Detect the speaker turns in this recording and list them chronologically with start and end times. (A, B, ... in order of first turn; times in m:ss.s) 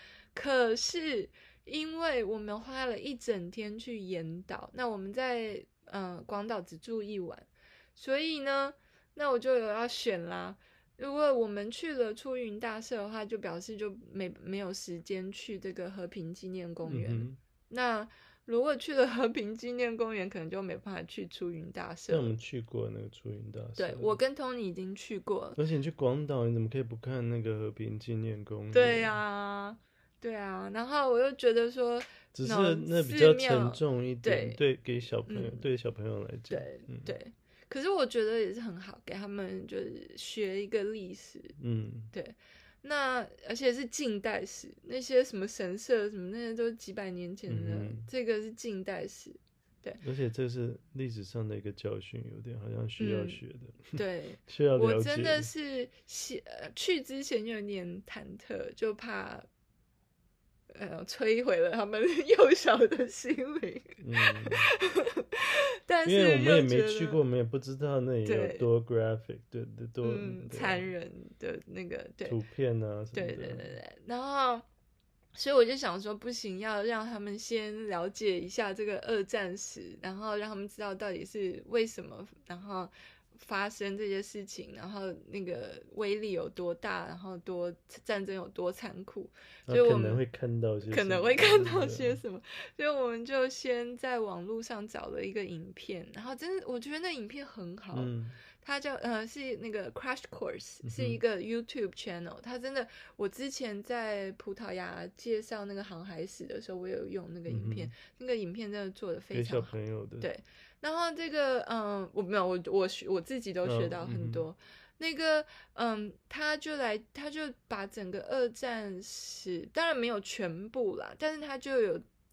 0:00.3-0:22.3 A
0:16.8-0:17.4 B
0:22.1-0:24.2 B
0:23.8-0:25.6 A
0:25.6-0:29.2 B
0:28.7-0:34.6 A
0:32.3-0:37.1 B
0:35.3-0:35.6 A
0:36.5-0:41.6 A
0:41.6-0:42.1 B
0:42.1-0:50.0 A
0:47.5-0:48.1 B
0:50.0-0:55.5 B
0:53.0-0:53.4 A
0:53.9-0:59.4 A
1:00.7-1:07.2 A
1:04.0-1:04.7 B
1:06.0-1:10.9 B
1:08.2-1:08.7 A
1:10.0-1:12.4 A
1:12.2-1:13.7 B
1:13.1-1:14.6 A
1:15.3-1:30.2 A
1:29.7-1:32.2 B
1:30.9-2:02.0 A
1:37.9-1:38.4 B
1:40.8-1:41.2 B
1:47.5-1:47.9 B
1:49.3-1:50.3 B
1:53.6-1:54.5 B